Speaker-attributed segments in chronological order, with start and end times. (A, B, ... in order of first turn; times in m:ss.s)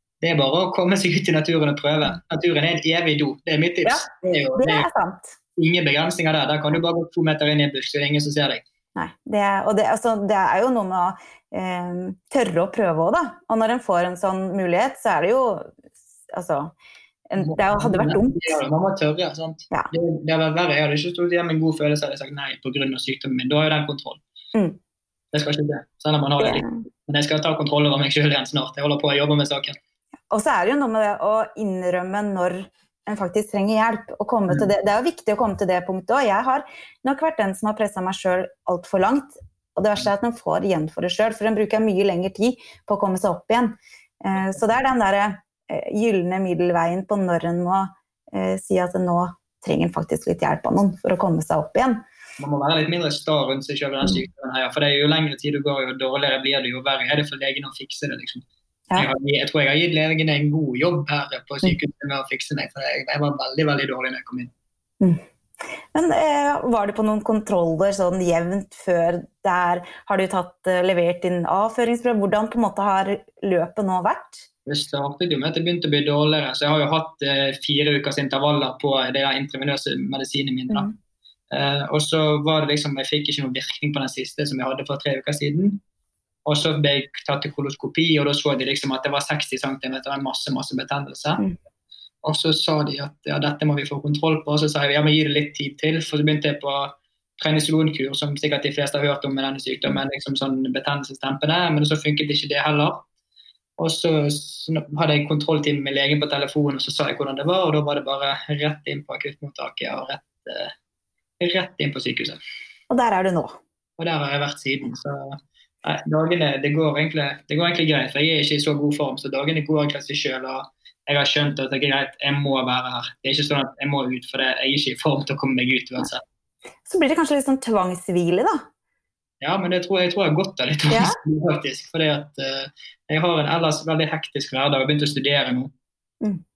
0:00.2-0:04.9 A
0:03.8-0:05.4 B
0:05.6-0:08.6 A
0:09.0-0:15.8 B
0:16.3-0:16.7 B
0:17.3-0:18.6 B
0:17.4-0:24.2 A
0:25.3-0:29.8 A
0:26.4-0:26.8 B
0:30.3-0:52.0 B
0:52.4-0:58.4 A
0:59.0-1:04.5 A
1:05.9-1:14.5 B
1:14.7-1:20.9 A
1:21.5-1:25.8 A
1:26.5-1:31.4 A
1:32.2-1:43.0 A
1:43.8-1:50.7 A
1:51.4-1:52.4 A
1:52.9-1:53.6 B
1:54.0-2:06.2 A
2:06.9-2:08.6 B
2:09.4-2:15.7 A